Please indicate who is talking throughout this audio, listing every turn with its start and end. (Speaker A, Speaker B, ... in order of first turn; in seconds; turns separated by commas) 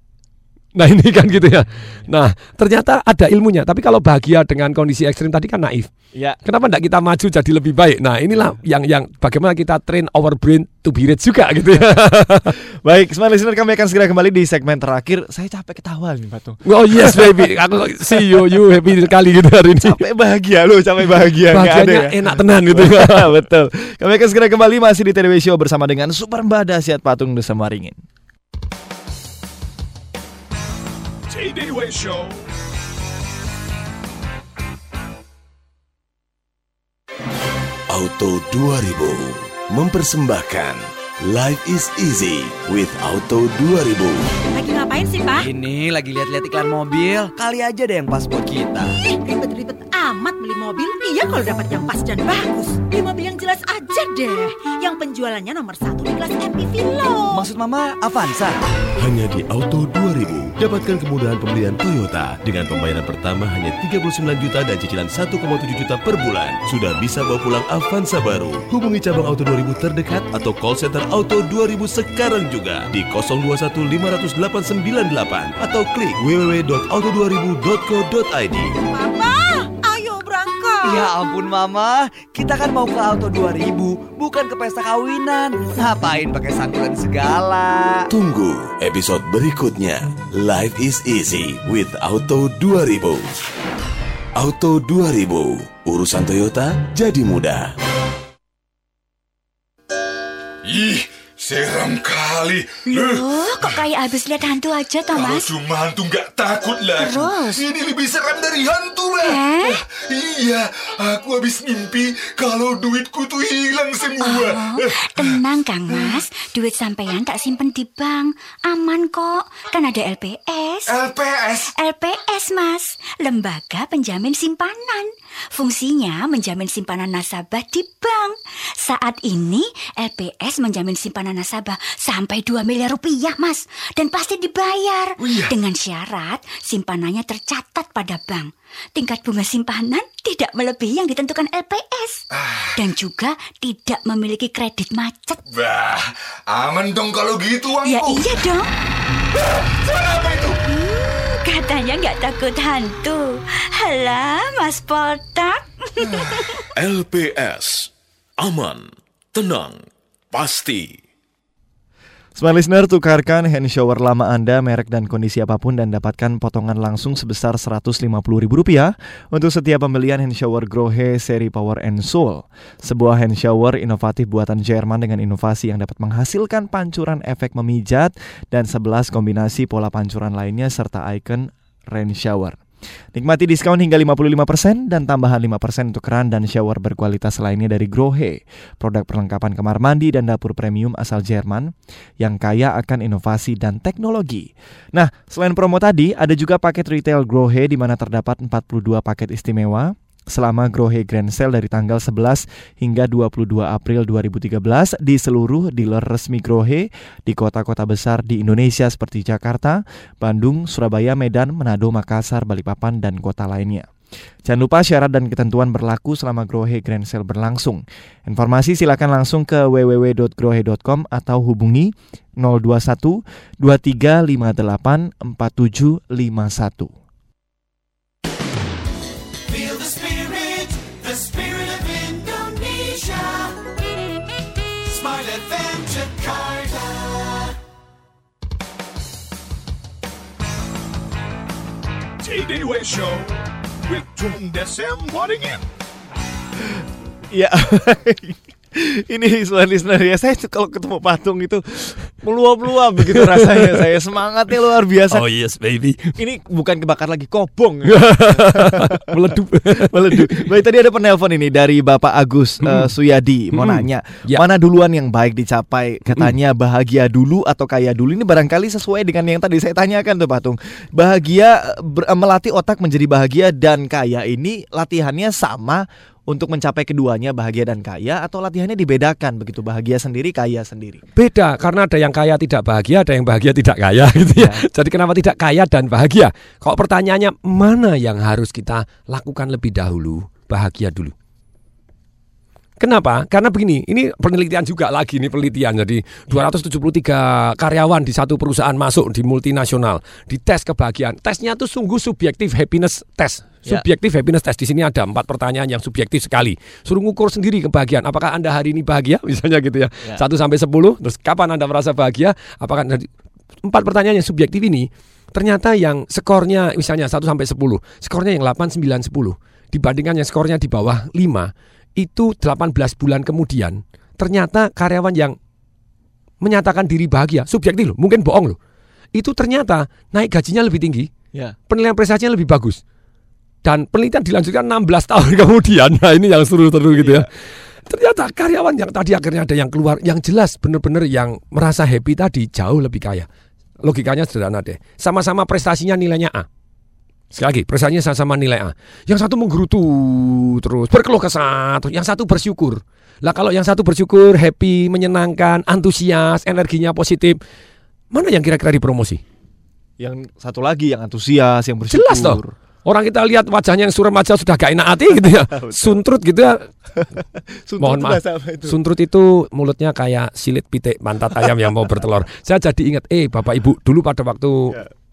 Speaker A: 0.7-5.9, Speaker B: 6.1-6.4, Speaker A: 6.4-12.5, Speaker B: 12.8-17.5, Speaker A: 16.6-20.0, Speaker B: 18.2-18.4, Speaker B: 19.8-28.0, Speaker A: 21.5-23.3, Speaker C: 31.3-32.4, Speaker D: 37.9-44.2, Speaker E: 44.5-45.4, Speaker F: 45.4-48.9, Speaker E: 49.0-57.5, Speaker F: 57.3-58.5, Speaker D: 59.0-78.7, Speaker E: 78.9-81.1, Speaker F: 80.8-88.1, Speaker D: 88.1-93.3, Speaker D: 94.4-97.7, Speaker G: 100.6-103.9, Speaker H: 102.9-105.5, Speaker G: 105.1-116.2, Speaker H: 107.0-107.6, Speaker H: 109.2-109.8, Speaker H: 114.2-120.9, Speaker G: 120.9-121.7, Speaker H: 121.8-142.2, Speaker G: 135.2-135.6, Speaker G: 142.3-142.9, Speaker H: 142.8-145.4, Speaker G: 145.5-148.5, Speaker H: 147.8-148.7, Speaker G: 149.6-150.6, Speaker H: 150.7-156.6, Speaker D: 156.8-157.7, Speaker D: 158.4-159.8, Speaker D: 160.3-160.9, Speaker B: 162.4-182.6, Speaker B: 183.1-213.9, Speaker B: 214.4-226.9, Speaker C: 242.2-243.3, Speaker C: 243.9-245.7, Speaker B: 247.3-255.2, Speaker A: 253.1-253.8, Speaker A: 255.1-256.1, Speaker B: 256.2-259.0, Speaker A: 257.9-260.4, Speaker B: 259.8-281.0, Speaker A: 262.6-262.9, Speaker A: 263.5-264.4, Speaker A: 281.1-291.1, Speaker B: 284.4-284.6, Speaker A: 292.8-313.1, Speaker A: 313.6-325.4, Speaker A: 326.4-328.6, Speaker A: 329.1-331.1, Speaker A: 331.7-332.8, Speaker A: 333.6-337.3, Speaker B: 336.9-337.2, Speaker A: 337.9-343.3, Speaker A: 343.8-346.5, Speaker A: 347.3-357.4, Speaker A: 358.1-359.2, Speaker B: 360.0-362.5, Speaker A: 361.9-366.7, Speaker B: 365.2-366.0, Speaker B: 367.0-368.8, Speaker A: 367.8-374.8